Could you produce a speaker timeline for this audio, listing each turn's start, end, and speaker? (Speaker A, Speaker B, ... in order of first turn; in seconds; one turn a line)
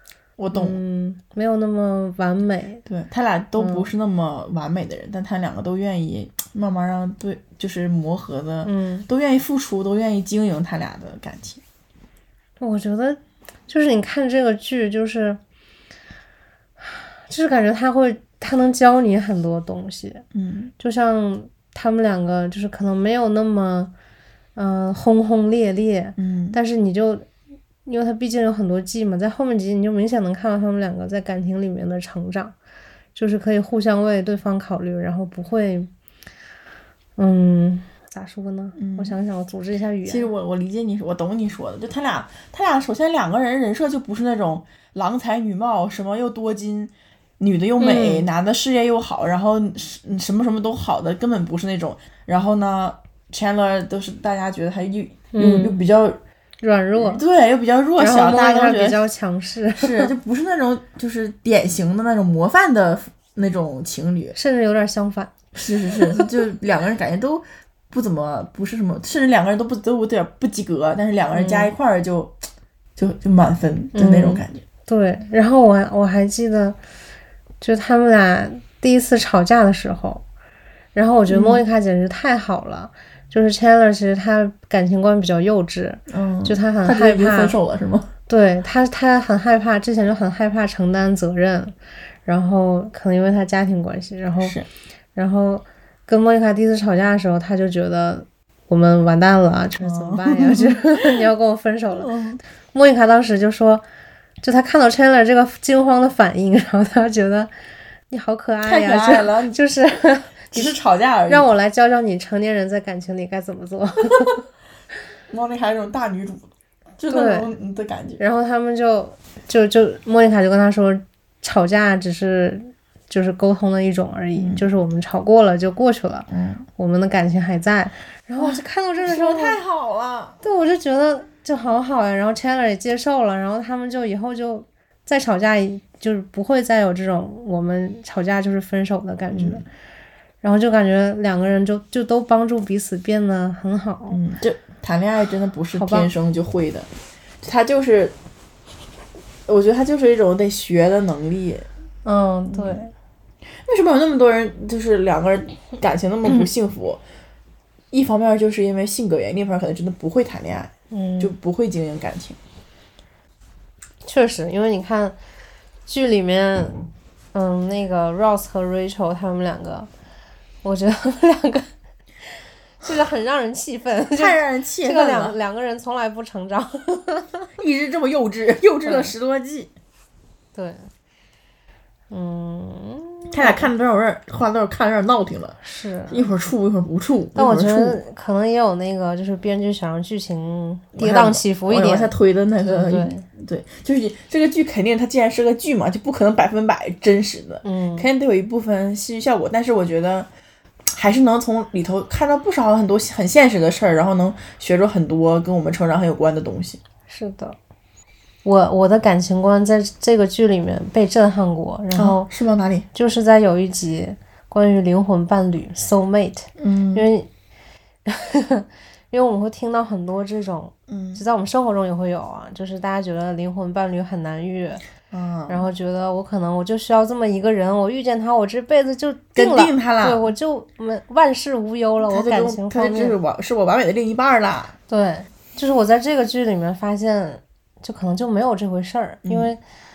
Speaker A: 0.4-0.8
Speaker B: 0.5-2.8
Speaker A: 2.9-11.6
Speaker B: 3.6-3.9
Speaker B: 8.6-9.1
Speaker B: 12.6-15.4
Speaker B: 16.8-20.2
Speaker A: 20.3-20.7
Speaker B: 20.8-23.9
Speaker B: 24.5-27.3
Speaker A: 26.2-26.6
Speaker B: 27.8-32.5
Speaker B: 33.1-35.9
Speaker B: 37.2-40.3
Speaker A: 38.8-39.2
Speaker A: 40.0-56.2
Speaker B: 47.8-48.3
Speaker B: 55.3-55.8
Speaker B: 56.6-57.2
Speaker A: 57.0-59.0
Speaker B: 58.0-60.1
Speaker A: 59.8-64.3
Speaker B: 64.3-65.3
Speaker A: 65.5-72.4
Speaker B: 65.8-66.3
Speaker B: 71.3-71.7
Speaker A: 73.0-74.6
Speaker B: 73.9-76.8
Speaker B: 77.6-80.2
Speaker B: 80.9-87.6
Speaker A: 81.3-81.6
Speaker A: 86.1-88.1
Speaker B: 88.3-91.7
Speaker B: 92.2-94.5
Speaker A: 94.4-94.7
Speaker B: 95.1-102.1
Speaker A: 99.8-101.2
Speaker A: 101.9-102.4
Speaker B: 102.7-103.8
Speaker B: 104.4-107.5
Speaker B: 108.1-110.7
Speaker A: 108.6-109.6
Speaker A: 110.5-111.5
Speaker B: 111.3-114.4
Speaker A: 115.3-118.2
Speaker B: 117.1-117.5
Speaker B: 118.2-129.6
Speaker A: 124.3-124.7
Speaker A: 126.3-126.7
Speaker A: 128.4-130.4
Speaker B: 130.4-139.7
Speaker A: 139.3-139.6
Speaker B: 140.4-144.2
Speaker A: 144.1-146.9
Speaker B: 145.7-146.1
Speaker A: 147.4-148.1
Speaker A: 149.5-151.7
Speaker B: 152.0-152.9
Speaker A: 152.5-152.8
Speaker A: 153.6-157.0
Speaker A: 157.9-162.4
Speaker B: 160.9-161.3
Speaker B: 164.0-165.2
Speaker B: 165.8-169.9
Speaker B: 170.6-171.7
Speaker B: 172.8-177.5
Speaker A: 174.1-175.4
Speaker A: 177.6-179.7
Speaker B: 178.8-179.1
Speaker B: 180.5-180.9
Speaker B: 182.1-183.7
Speaker A: 183.3-185.6
Speaker B: 185.6-186.3
Speaker A: 186.1-188.0
Speaker B: 187.3-193.2
Speaker A: 190.9-200.3
Speaker B: 197.6-198.1
Speaker A: 200.9-206.8
Speaker B: 207.1-207.6
Speaker B: 208.4-212.3
Speaker A: 211.9-212.9
Speaker B: 212.9-217.3
Speaker A: 216.6-217.1
Speaker B: 218.1-224.8
Speaker A: 220.9-221.2
Speaker A: 225.1-225.7
Speaker B: 225.5-233.2
Speaker A: 229.3-230.3
Speaker A: 232.0-234.7
Speaker B: 234.9-239.6
Speaker A: 239.2-239.5